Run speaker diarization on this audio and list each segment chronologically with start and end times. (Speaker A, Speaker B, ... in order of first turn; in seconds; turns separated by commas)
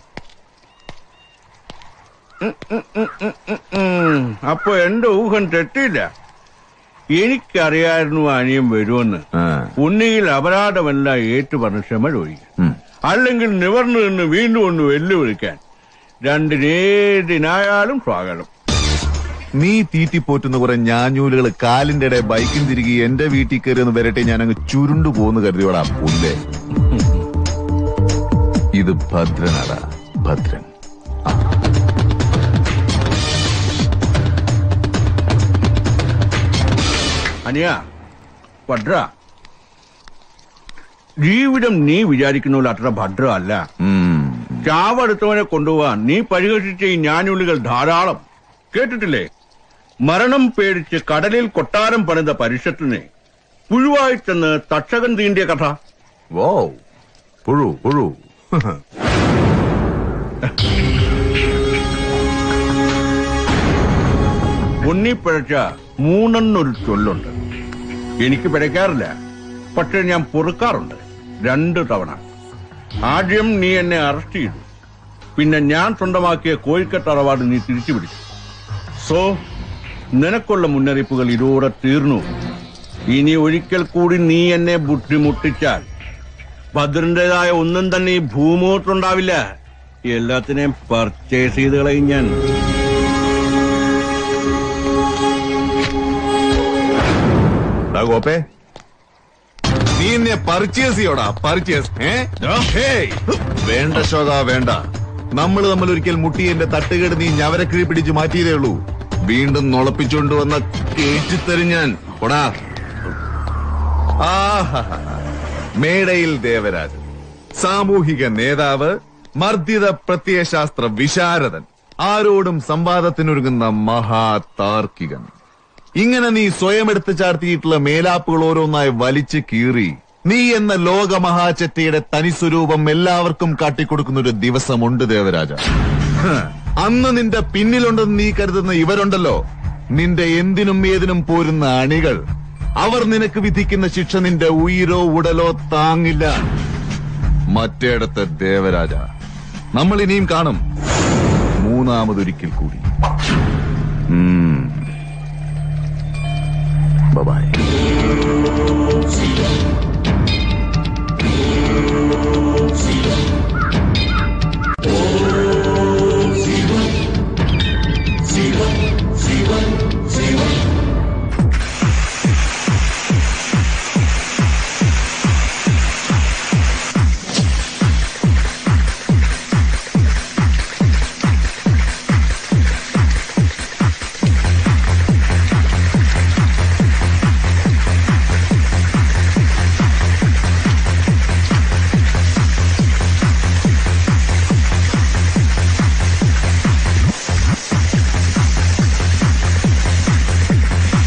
Speaker A: 2.4-6.1, Speaker A: 7.2-9.2, Speaker B: 9.4-9.7, Speaker A: 9.8-12.4, Speaker A: 13.1-15.6, Speaker A: 16.3-18.5, Speaker B: 19.6-26.4, Speaker B: 28.8-30.7, Speaker A: 37.5-37.8, Speaker A: 38.7-39.1, Speaker A: 41.2-43.6, Speaker B: 43.8-44.6, Speaker A: 44.6-49.3, Speaker A: 50.1-53.1, Speaker A: 53.7-55.8, Speaker B: 56.3-56.8, Speaker B: 57.5-58.7, Speaker A: 64.8-67.3, Speaker A: 68.2-69.1, Speaker A: 69.8-72.2, Speaker A: 73.1-74.6, Speaker A: 75.4-78.2, Speaker A: 79.0-79.4, Speaker A: 80.2-82.2, Speaker A: 83.1-85.8, Speaker A: 86.8-89.4, Speaker A: 90.1-92.4, Speaker B: 97.9-98.4, Speaker B: 100.0-112.5, Speaker B: 114.2-115.2, Speaker B: 115.8-117.0, Speaker B: 117.6-125.3, Speaker B: 126.0-135.6, Speaker B: 136.2-139.4, Speaker B: 139.9-142.2, Speaker B: 142.8-146.5, Speaker B: 147.5-149.1, Speaker B: 149.8-150.6, Speaker B: 151.6-152.8, Speaker B: 154.1-154.9, Speaker B: 157.1-157.6